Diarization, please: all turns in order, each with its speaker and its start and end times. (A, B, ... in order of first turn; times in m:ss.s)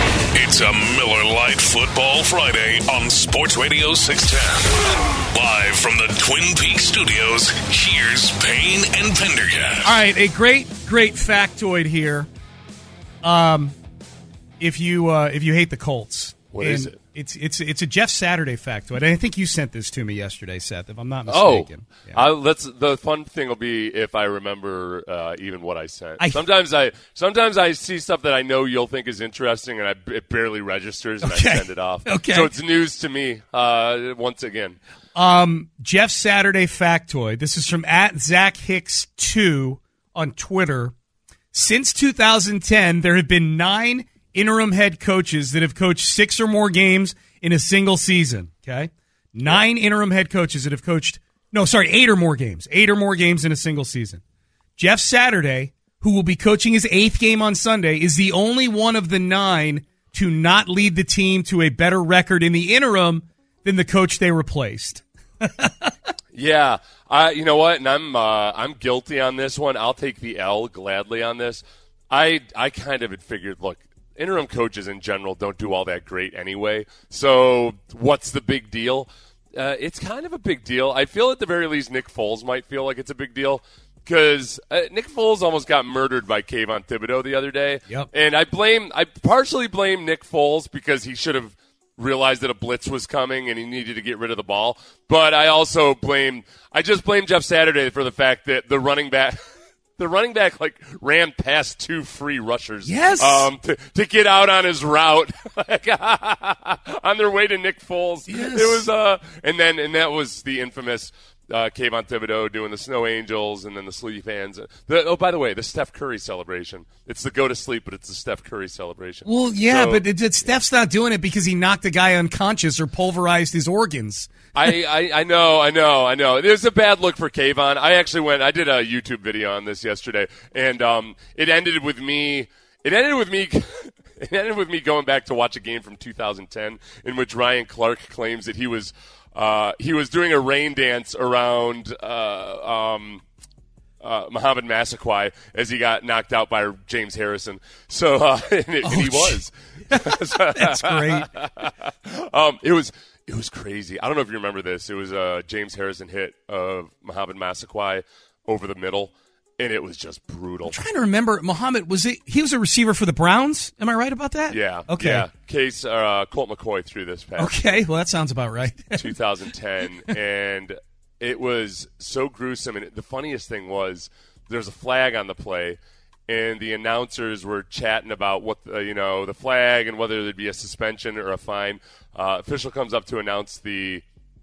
0:00.3-0:10.0 A
0:09.8-0:12.3 B
0:13.2-0:13.8 B
0:14.6-0:22.2 B
0:16.5-0:17.0 C
0:21.3-0:34.8 C
0:31.2-0:32.5 B
0:35.2-0:40.9 B
0:41.5-0:54.2 B
0:54.8-1:05.9 B
1:06.3-1:39.4 C
1:40.0-2:00.0 C
1:42.8-1:43.5 B
1:48.3-1:48.8 B
1:59.3-2:04.3 B
2:04.6-2:23.2 C
2:24.0-2:40.8 C
2:28.8-2:31.3 B
2:40.7-2:45.2 B
2:44.5-2:47.8 C
2:47.4-2:49.0 B
2:49.0-3:04.0 C